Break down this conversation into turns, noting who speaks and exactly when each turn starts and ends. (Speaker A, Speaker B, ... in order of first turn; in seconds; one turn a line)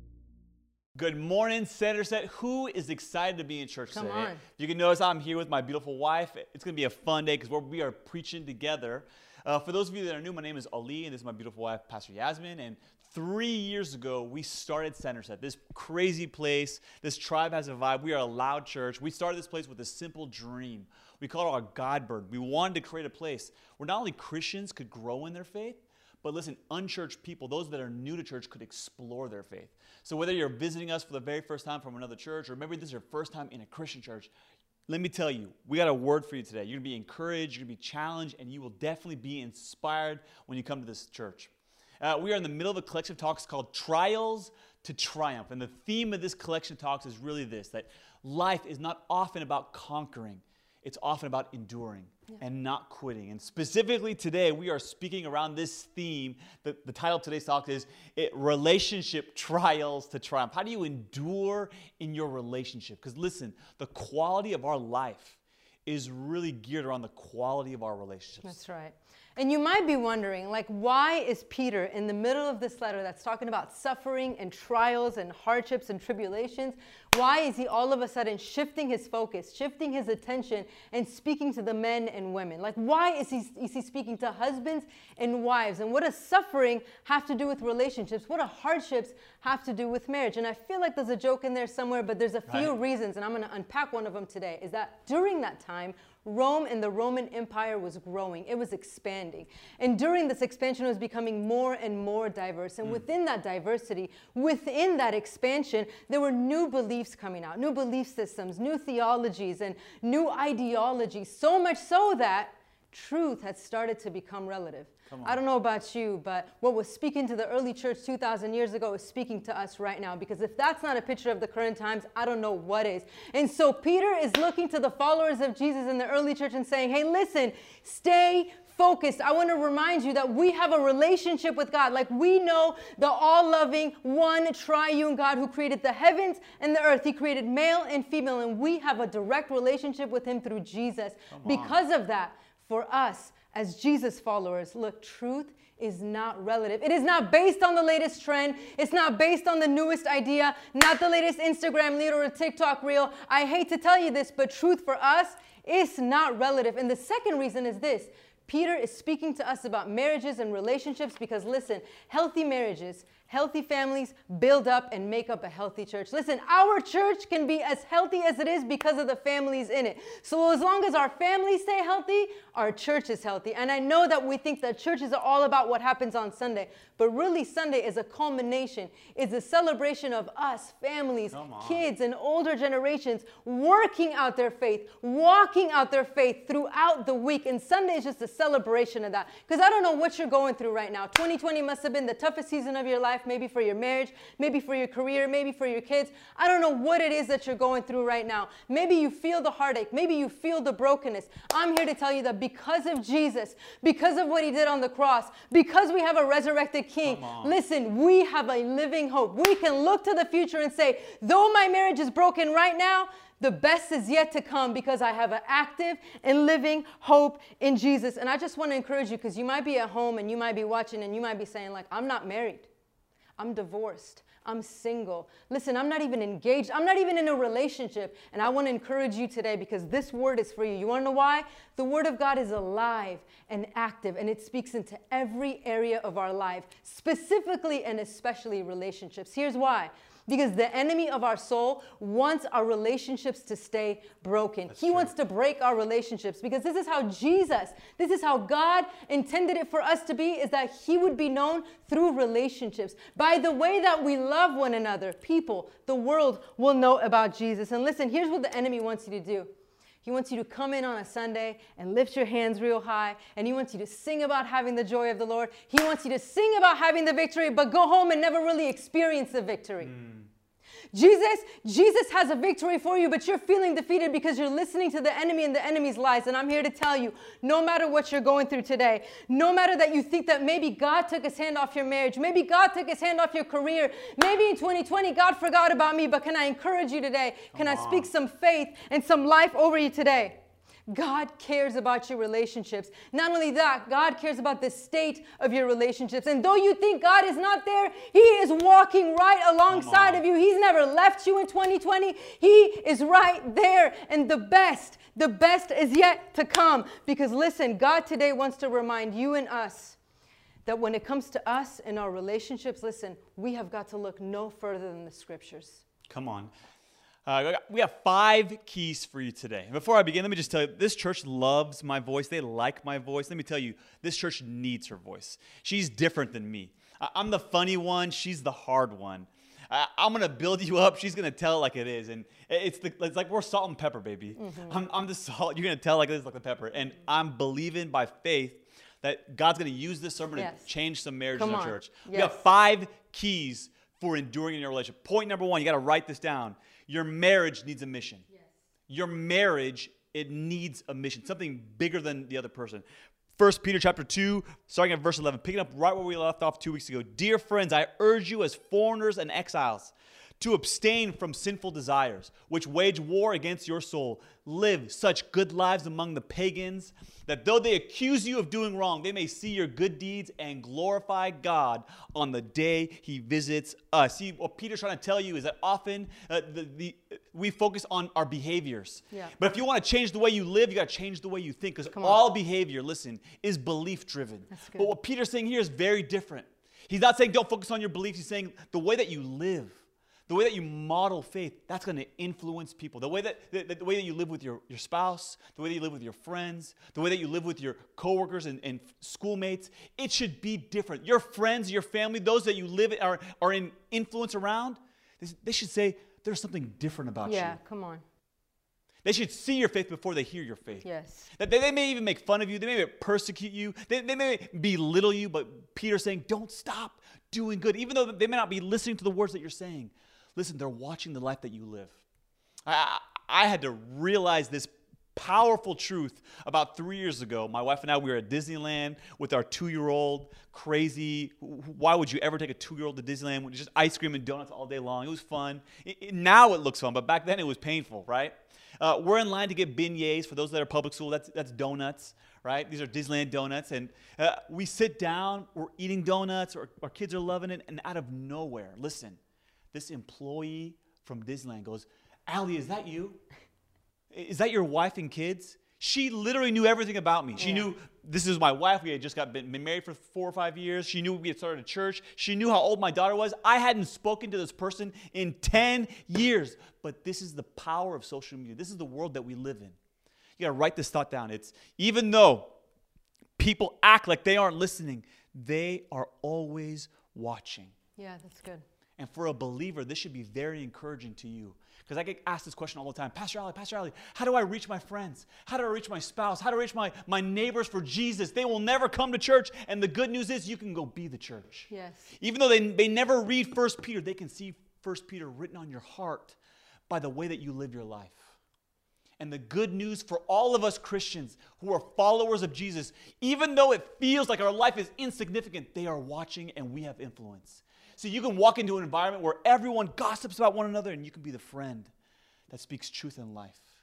Speaker A: 0.9-34.3
Speaker B: 3.9-4.4
Speaker A: 34.9-68.6
Speaker B: 68.4-222.7
Speaker A: 115.1-115.4
Speaker A: 141.3-141.8
Speaker A: 181.3-181.8
Speaker A: 207.0-207.6
Speaker B: 223.4-259.5
Speaker A: 244.7-245.1
Speaker B: 260.0-269.9
Speaker A: 269.8-270.3
Speaker B: 270.9-310.0
Speaker A: 287.5-288.1
Speaker A: 299.7-300.2
Speaker B: 310.6-315.8
Speaker A: 316.1-316.5
Speaker A: 317.2-348.2
Speaker B: 334.4-334.8
Speaker B: 340.3-340.7
Speaker B: 341.3-342.4
Speaker A: 348.9-352.8
Speaker A: 353.4-407.6
Speaker B: 381.9-382.2
Speaker B: 384.5-384.9
Speaker B: 407.2-408.0
Speaker A: 409.0-422.0
Speaker B: 410.8-411.3
Speaker A: 422.6-449.2
Speaker A: 449.7-453.2
Speaker A: 454.1-469.8
Speaker B: 457.4-457.7
Speaker A: 470.4-472.5
Speaker A: 473.4-477.7
Speaker B: 478.0-478.6
Speaker A: 479.0-496.4
Speaker B: 491.7-492.1
Speaker A: 496.9-498.3
Speaker A: 499.2-511.9
Speaker A: 512.5-513.7